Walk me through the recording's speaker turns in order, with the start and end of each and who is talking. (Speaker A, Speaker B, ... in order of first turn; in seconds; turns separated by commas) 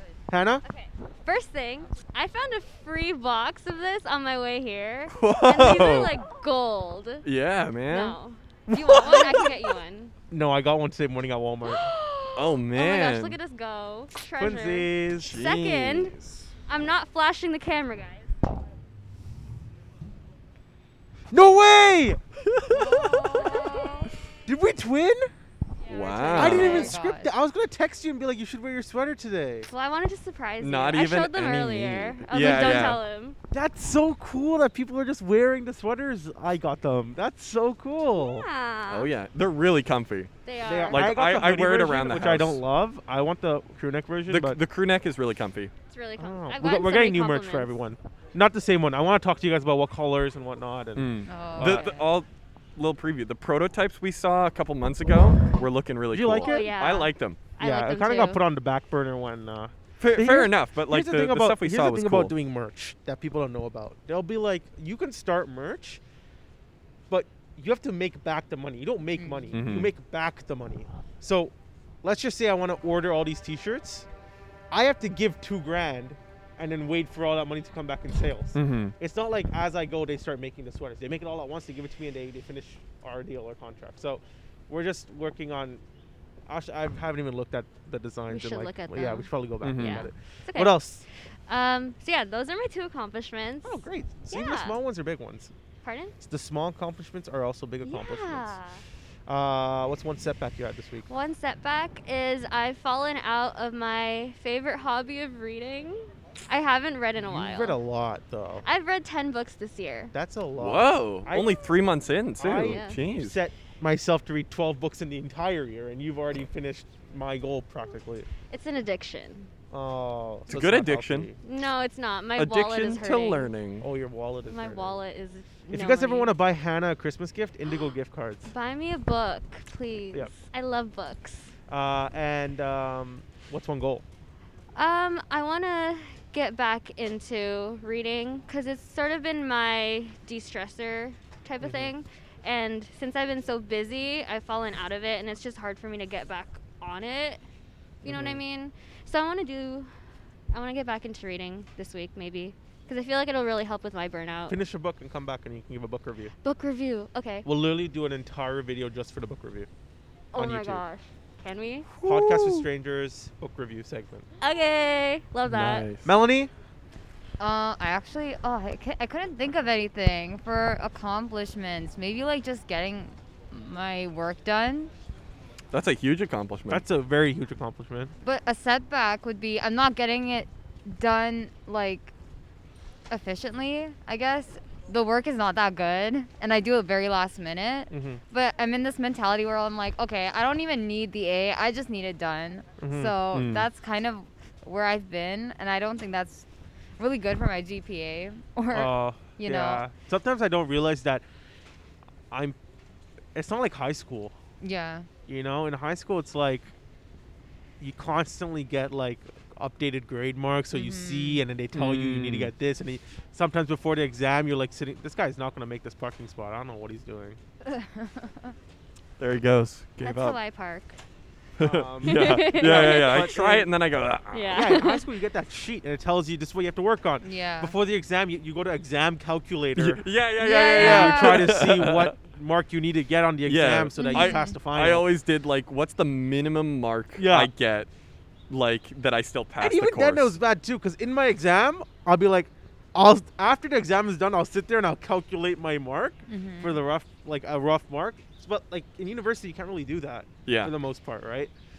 Speaker A: 0.3-0.6, Speaker B: 0.6-7.2, Speaker C: 5.1-6.2, Speaker C: 7.2-8.2, Speaker B: 7.9-10.1, Speaker A: 8.7-9.6, Speaker A: 10.3-11.9, Speaker B: 11.6-16.1, Speaker C: 12.3-13.4, Speaker A: 14.3-15.4, Speaker C: 15.2-16.5, Speaker B: 16.7-18.3, Speaker A: 21.3-22.2, Speaker C: 22.4-23.1, Speaker B: 22.7-24.1, Speaker A: 23.3-23.7, Speaker A: 24.4-25.3, Speaker B: 25.9-26.9, Speaker C: 25.9-26.9, Speaker A: 26.3-29.7, Speaker D: 26.4-27.3, Speaker B: 29.6-33.4, Speaker C: 30.6-33.0, Speaker A: 32.5-32.8, Speaker A: 33.5-38.5, Speaker B: 38.1-39.1, Speaker C: 38.9-40.3, Speaker B: 40.4-41.1, Speaker A: 40.6-44.6, Speaker C: 40.9-42.6, Speaker C: 44.3-45.7, Speaker B: 45.9-47.7, Speaker A: 46.2-51.8, Speaker C: 51.0-57.4, Speaker D: 51.3-52.0, Speaker A: 56.1-56.7, Speaker B: 56.4-58.4, Speaker A: 57.6-66.0, Speaker C: 60.0-62.3, Speaker A: 67.1-74.1, Speaker D: 69.2-69.5, Speaker C: 69.5-69.9, Speaker A: 74.7-85.8, Speaker C: 78.5-78.9, Speaker A: 86.5-91.0, Speaker B: 88.3-90.8, Speaker C: 89.6-90.1, Speaker B: 91.5-94.8, Speaker A: 93.6-95.5, Speaker B: 95.8-96.1, Speaker A: 96.2-98.5, Speaker B: 97.8-98.8, Speaker A: 99.3-101.1, Speaker B: 101.1-107.8, Speaker A: 107.2-108.6, Speaker B: 108.6-110.1, Speaker A: 110.1-111.6, Speaker C: 110.6-113.4, Speaker A: 112.4-118.3, Speaker B: 112.5-113.0, Speaker B: 118.5-119.5, Speaker A: 119.7-121.3, Speaker C: 120.5-121.3, Speaker B: 121.4-123.5, Speaker C: 122.3-123.9, Speaker A: 123.8-125.0, Speaker B: 124.5-126.3, Speaker A: 125.7-128.5, Speaker B: 128.4-131.5, Speaker A: 131.7-134.0, Speaker B: 134.7-147.4, Speaker A: 141.6-141.9, Speaker B: 148.0-149.9, Speaker A: 148.0-148.4, Speaker B: 150.5-154.6, Speaker A: 154.5-156.3, Speaker B: 156.4-157.5, Speaker A: 157.4-159.7, Speaker B: 160.3-161.9, Speaker A: 160.4-160.8, Speaker C: 161.9-162.6, Speaker A: 162.0-164.2, Speaker B: 164.4-165.9, Speaker C: 165.4-166.1, Speaker A: 166.0-166.5, Speaker D: 167.4-174.9, Speaker C: 175.7-176.8, Speaker A: 176.7-178.1, Speaker D: 178.2-182.1, Speaker D: 183.1-196.4, Speaker A: 187.9-188.2, Speaker A: 192.8-193.4, Speaker C: 193.3-193.7, Speaker D: 197.0-199.8, Speaker A: 198.7-201.2, Speaker A: 202.3-202.6, Speaker A: 203.3-204.3, Speaker D: 204.6-205.1, Speaker A: 205.3-206.7, Speaker A: 207.8-217.4, Speaker D: 210.7-211.4, Speaker C: 211.7-212.5, Speaker D: 217.6-218.5, Speaker C: 219.2-220.4, Speaker B: 220.0-221.0, Speaker A: 221.6-223.7, Speaker C: 221.6-224.8, Speaker B: 222.0-223.3, Speaker B: 224.3-225.1, Speaker A: 224.5-230.0, Speaker D: 227.2-227.7, Speaker C: 229.8-232.1, Speaker D: 230.4-231.6, Speaker A: 230.7-235.1, Speaker C: 233.4-237.9, Speaker D: 234.0-234.6, Speaker A: 237.2-237.5, Speaker C: 238.5-240.3, Speaker A: 239.6-251.5, Speaker D: 246.3-246.8, Speaker C: 250.4-250.7